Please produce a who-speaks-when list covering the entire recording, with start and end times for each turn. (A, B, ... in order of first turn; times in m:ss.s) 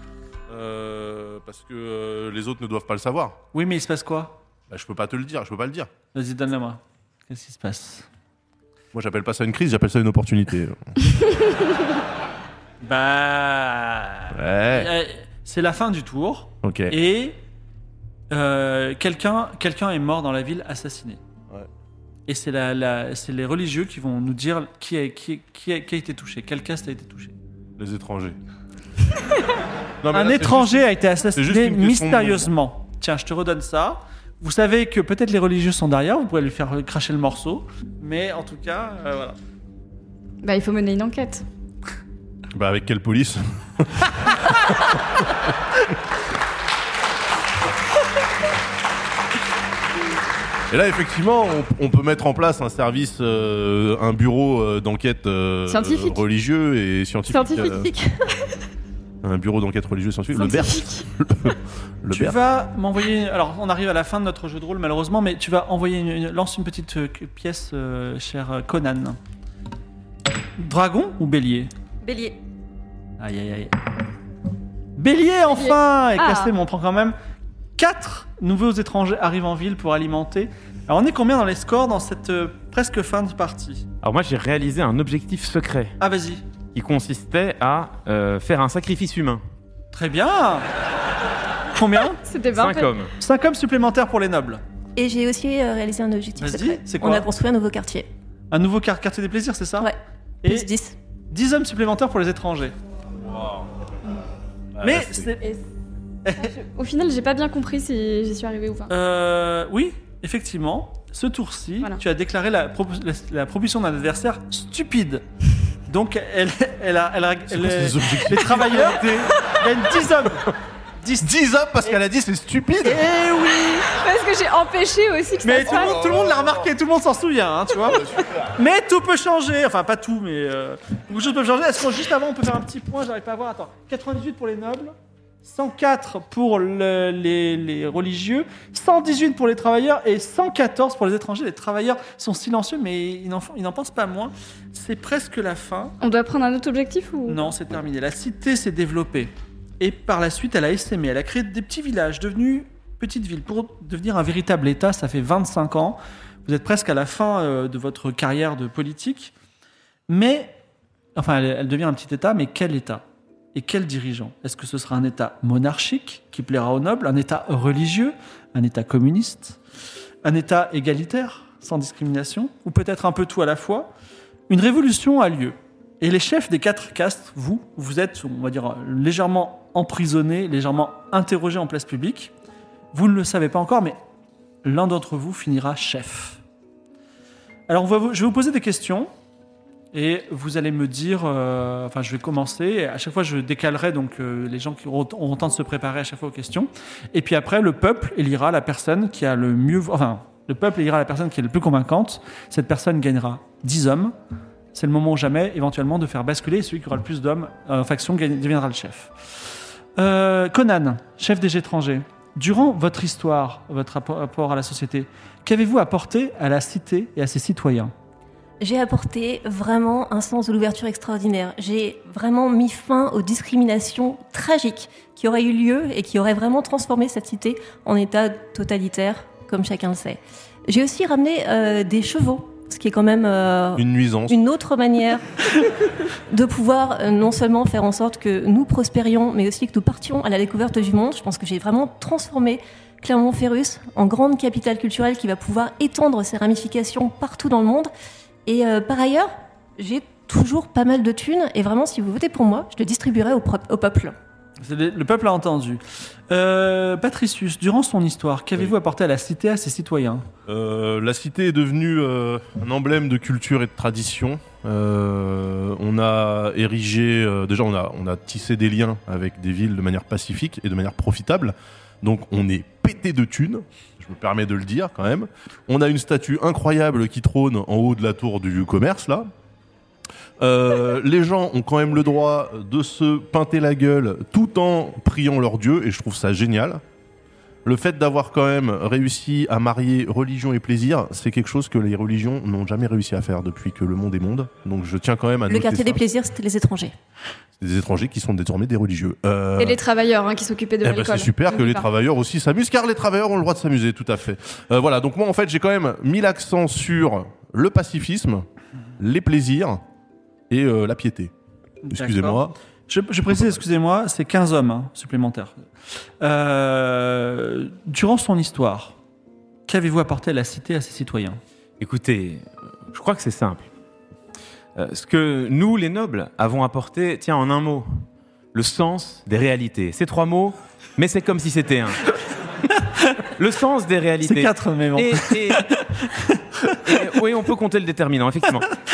0:00.5-0:03.4 A
0:03.5-0:04.4 B
0:04.7-0:05.9 A
0:06.1-0:08.1 B
0:08.9-0:10.9 A
0:12.8-0:17.4 B
0:14.3-0:14.9 A
0:16.6-0:17.0 A
0:18.3-0:21.2 B
0:22.3-0:27.3 B
0:27.8-0:28.4 A
0:30.0-0:32.5 A
0:30.1-0:39.4 B
0:40.4-0:41.4 C
0:42.5-0:45.0 A
0:50.7-0:57.9 A
0:55.7-0:56.2 C
0:57.3-0:57.9 C
0:59.2-1:02.4 A
1:00.3-1:01.1 C
1:02.1-1:09.2 B
1:10.6-1:11.7 B
1:12.0-1:12.4 D
1:13.2-1:13.7 B
1:15.0-1:17.2 B
1:15.5-1:16.5 C
1:17.8-1:23.8 B
1:24.0-1:26.0 E
1:26.0-1:26.4 B
1:26.8-1:29.4 E
1:29.9-1:30.7 B
1:31.7-1:32.2 B
1:32.2-1:33.0 C
1:32.6-1:33.1 E
1:33.2-1:34.6 B
1:35.0-1:38.1 D
1:36.4-1:37.3 B
1:38.5-1:39.9 B
1:39.8-1:41.0 D
1:40.4-1:40.7 B
1:41.3-1:42.8 B
1:43.3-1:43.6 A
1:44.8-1:45.3 A
1:44.8-1:45.5 B
1:46.3-1:46.5 B
1:46.4-1:48.9 C
1:48.9-1:55.2 B
1:55.9-2:01.3 B
1:57.5-1:59.3 A
2:01.2-2:03.0 A
2:02.8-2:04.0 B
2:03.9-2:06.0 C
2:05.4-2:25.9 B
2:05.7-2:06.6 A
2:26.0-2:27.5 C
2:27.3-2:39.3 B
2:40.1-2:40.6 B
2:41.2-2:49.6 B
2:50.2-2:53.9 B
2:54.5-3:02.3 B
3:02.9-3:04.0 B
3:04.6-3:06.4 B
3:07.7-3:09.1 B
3:09.9-3:24.1 B
3:24.7-3:29.1 B
3:30.0-3:37.9 B
3:38.6-3:55.2 D
3:53.8-3:54.4 A
3:56.3-4:07.9 D
4:08.5-4:14.2 D
4:14.6-4:20.3 B
4:20.5-4:39.3 A
4:40.4-4:46.8 A
4:47.6-4:56.0 A
4:55.5-4:56.9 D
4:57.6-4:59.8 A
4:59.6-5:01.9 C
5:00.8-5:08.4 A
5:09.0-5:09.8 A
5:10.5-5:11.3 A
5:11.8-5:15.6 B
5:11.9-5:12.6 A
5:13.3-5:13.6 A
5:16.2-5:19.0 B
5:19.7-5:21.4 B
5:21.8-5:23.6 E
5:24.8-5:27.9 E
5:28.5-5:32.1 E
5:33.4-5:35.7 E
5:34.2-5:36.8 B
5:36.8-5:38.7 E